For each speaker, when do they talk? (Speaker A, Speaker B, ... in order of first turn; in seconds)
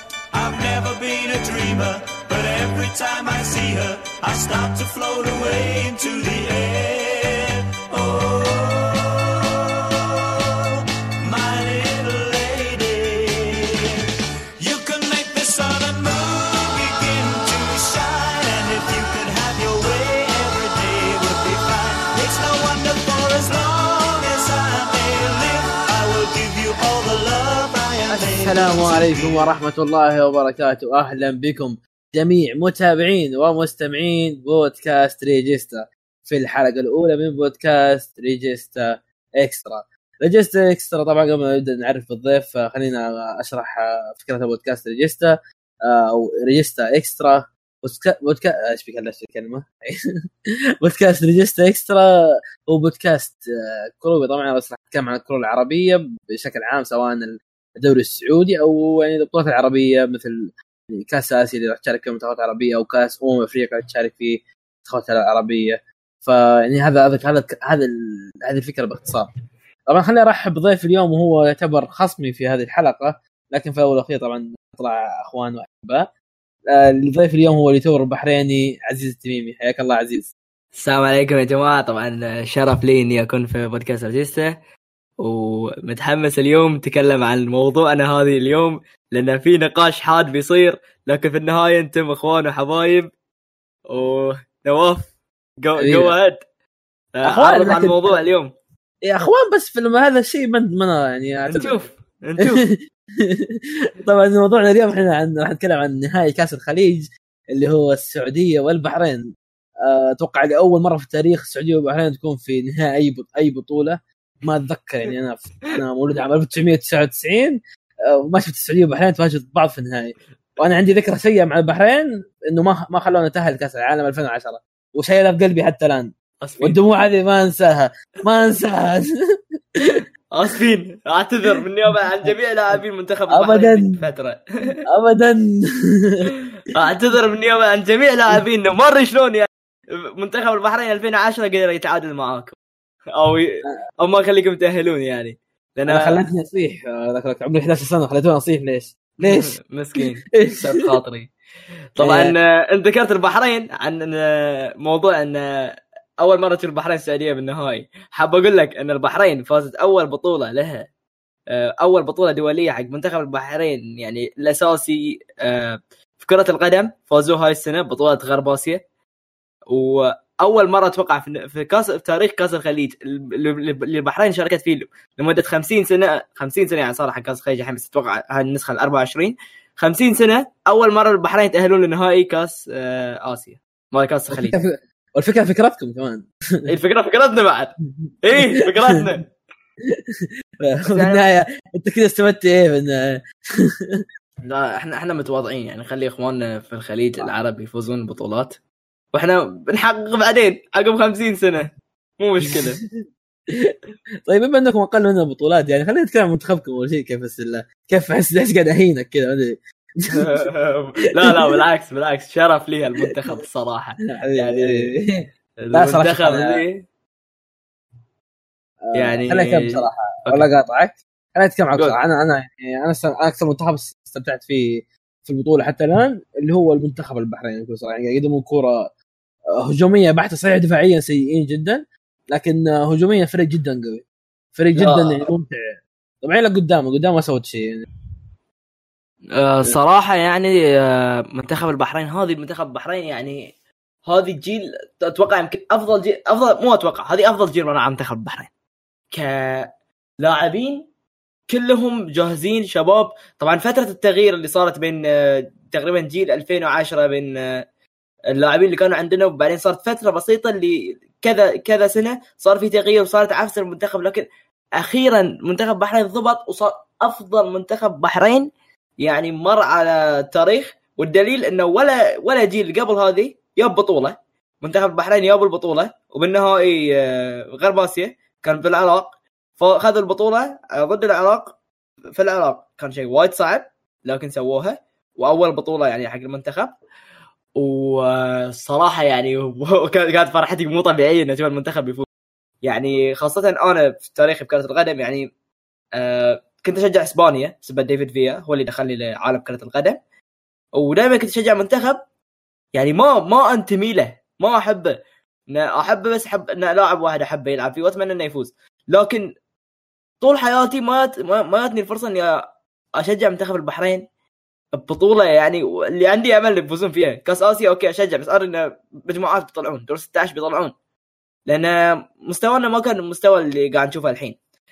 Speaker A: 0.3-14.1, 14.6-29.5
Speaker B: 28.1-45.3, 45.9-50.0, 50.8-52.2, 52.7-69.3, 69.9-76.1, 76.7-80.3, 95.8-96.1, 97.2-98.1, 99.0-101.8, 102.4-109.2, 109.8-117.6, 118.2-129.1, 132.2-132.8, 133.3-133.9, 134.9-136.3, 145.9-150.6, 152.0-152.3, 184.3-186.7, 188.1-189.0, 189.9-194.0, 202.5-202.9, 203.5-203.7, 204.3-210.4, 214.0-216.6, 218.9-228.8, 229.6-235.6, 236.2-237.9
Speaker C: 80.8-84.5, 85.2-93.1, 93.9-96.4, 97.2-98.5, 101.5-102.7, 126.4-126.8, 130.3-134.4, 136.7-139.5, 140.2-142.6, 143.2-146.2, 149.2-151.3, 152.0-155.5, 156.2-160.9, 161.5-168.8, 169.7-184.6, 186.7-189.3, 190.9-191.3, 194.4-198.6, 199.1-201.7, 202.2-202.8, 210.1-214.9, 215.6-216.8, 218.9-220.5, 234.8-235.3, 239.4-243.4, 244.1-248.5, 249.1-249.7, 250.2-250.8, 251.5-257.4, 258.3-264.2, 264.8-268.5, 269.0-281.5, 282.2-286.7, 287.6-292.1, 292.6-295.3, 296.0-300.0, 300.8-302.0, 302.7-304.9, 305.5-309.3, 310.2-312.4, 313.0-314.0, 314.7-320.7, 321.5-324.4